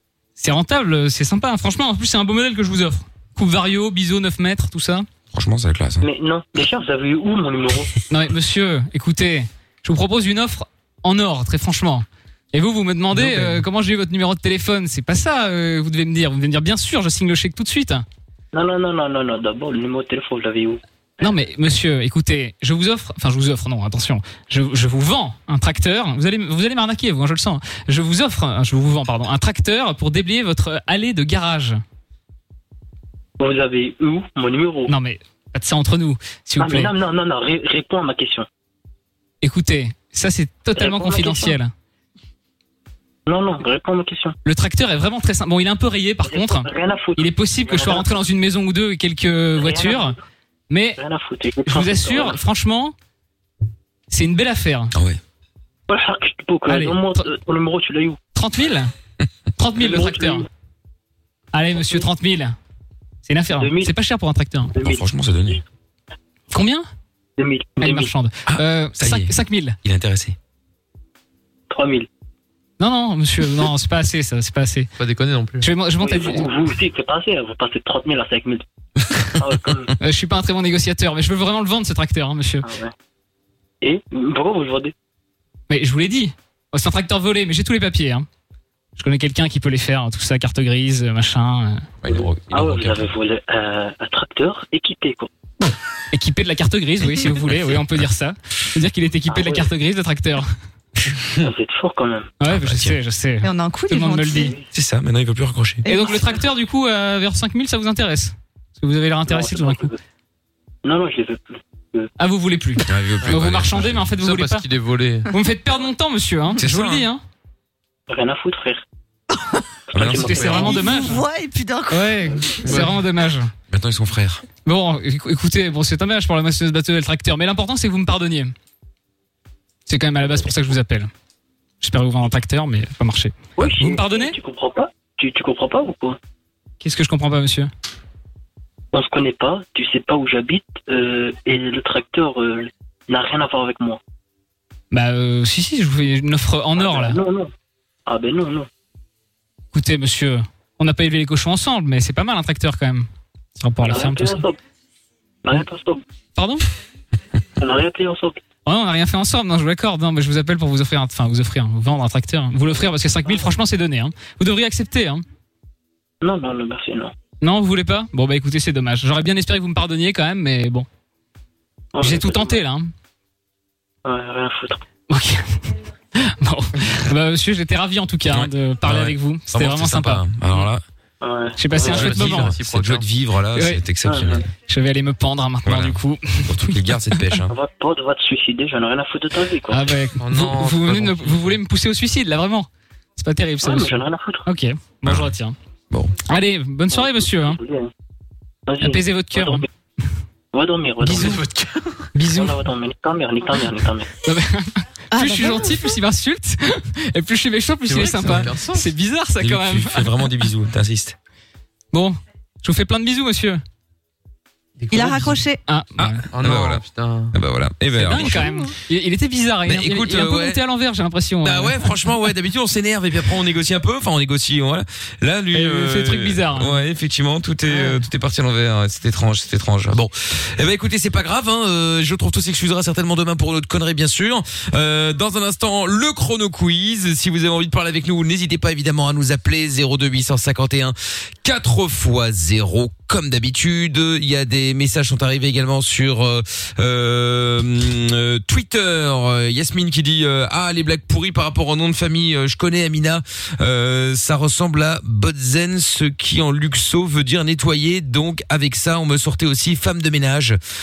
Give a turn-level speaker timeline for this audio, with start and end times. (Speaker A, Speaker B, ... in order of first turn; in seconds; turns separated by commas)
Speaker A: 0.4-5.1, Speaker B: 5.3-6.1, Speaker C: 6.0-7.9, Speaker A: 8.1-18.0, Speaker D: 13.1-13.5, Speaker C: 18.5-21.3, Speaker A: 21.2-31.8, Speaker C: 33.4-34.9, Speaker A: 34.9-36.9, Speaker C: 36.6-38.5, Speaker A: 39.4-41.7, Speaker C: 40.8-41.6, Speaker C: 43.3-44.3, Speaker A: 44.4-50.1, Speaker C: 46.2-48.2, Speaker C: 49.6-50.1, Speaker A: 50.7-51.0, Speaker C: 51.0-52.4, Speaker A: 51.6-52.9, Speaker A: 54.1-54.9, Speaker B: 54.9-55.2, Speaker C: 55.9-58.2, Speaker A: 56.7-57.3, Speaker A: 58.3-58.9, Speaker A: 59.6-60.4, Speaker C: 59.8-60.5, Speaker A: 61.5-62.5, Speaker A: 63.2-64.7, Speaker C: 63.6-63.9, Speaker C: 64.8-65.0, Speaker B: 64.8-65.6, Speaker A: 66.5-66.8, Speaker C: 67.4-68.1, Speaker A: 67.8-69.8, Speaker B: 68.5-70.3, Speaker C: 71.7-72.1, Speaker A: 72.8-74.9, Speaker D: 75.0-75.7, Speaker A: 75.6-76.5, Speaker C: 76.0-78.6, Speaker C: 79.4-79.9, Speaker A: 80.0-82.7, Speaker C: 82.6-82.9, Speaker C: 83.8-84.9, Speaker A: 85.7-88.3, Speaker A: 89.0-91.9, Speaker B: 92.0-93.1, Speaker C: 92.1-95.3, Speaker A: 96.1-100.5, Speaker C: 99.3-99.7, Speaker C: 101.4-102.3, Speaker A: 102.4-104.5, Speaker B: 102.4-103.0, Speaker E: 103.4-104.5, Speaker C: 104.3-104.6, Speaker B: 104.7-105.8, Speaker E: 105.8-106.4, Speaker A: 105.8-109.9, Speaker C: 109.3-110.0, Speaker C: 110.8-112.1, Speaker A: 112.2-114.6, Speaker B: 112.9-114.1, Speaker D: 114.2-115.3, Speaker A: 115.3-117.2, Speaker B: 116.6-117.1, Speaker C: 118.1-118.8, Speaker C: 119.9-120.9, Speaker B: 119.9-120.7, Speaker A: 120.0-121.2, Speaker E: 120.5-122.7, Speaker A: 121.9-123.5, Speaker D: 122.6-122.9, Speaker B: 123.7-124.4, Speaker A: 124.6-128.5, Speaker A: 129.9-131.1, Speaker A: 131.8-134.3, Speaker C: 133.6-136.2, Speaker A: 136.8-137.7, Speaker C: 138.9-144.0, Speaker A: 144.9-147.2, Speaker C: 146.8-147.5, Speaker C: 148.1-148.7, Speaker A: 149.7-154.4, Speaker C: 153.8-154.6, Speaker C: 155.4-156.0, Speaker A: 156.4-156.7, Speaker C: 157.6-158.4, Speaker A: 158.7-165.2, Speaker C: 166.2-167.1, Speaker A: 167.4-170.8, Speaker C: 171.9-172.6, Speaker A: 172.0-172.9, Speaker C: 174.0-174.8, Speaker A: 175.1-180.7, Speaker B: 178.2-180.8, Speaker C: 181.2-182.1, Speaker A: 181.6-182.6, Speaker D: 181.8-183.1, Speaker B: 181.8-184.4, Speaker A: 183.5-183.8, Speaker C: 184.1-184.4, Speaker A: 184.7-187.4, Speaker B: 185.6-187.5, Speaker C: 187.5-190.0, Speaker A: 189.7-195.6, Speaker D: 190.2-191.6, Speaker C: 193.6-194.5, Speaker B: 195.0-195.3, Speaker A: 196.2-197.6, Speaker C: 196.9-197.9, Speaker C: 198.7-199.7, Speaker A: 198.8-199.6, Speaker C: 200.5-201.4, Speaker A: 201.0-201.4, Speaker D: 201.2-202.1, Speaker A: 202.1-202.6, Speaker C: 202.3-204.1, Speaker A: 204.2-210.1, Speaker E: 205.2-205.7, Speaker D: 207.9-208.9, Speaker B: 209.4-211.2, Speaker A: 211.9-213.6, Speaker D: 214.8-215.3, Speaker E: 214.9-215.6, Speaker A: 215.7-216.2, Speaker B: 216.0-218.6, Speaker D: 216.3-217.3, Speaker A: 217.9-221.9, Speaker B: 219.6-220.6, Speaker B: 221.4-260.6, Speaker A: 225.5-226.8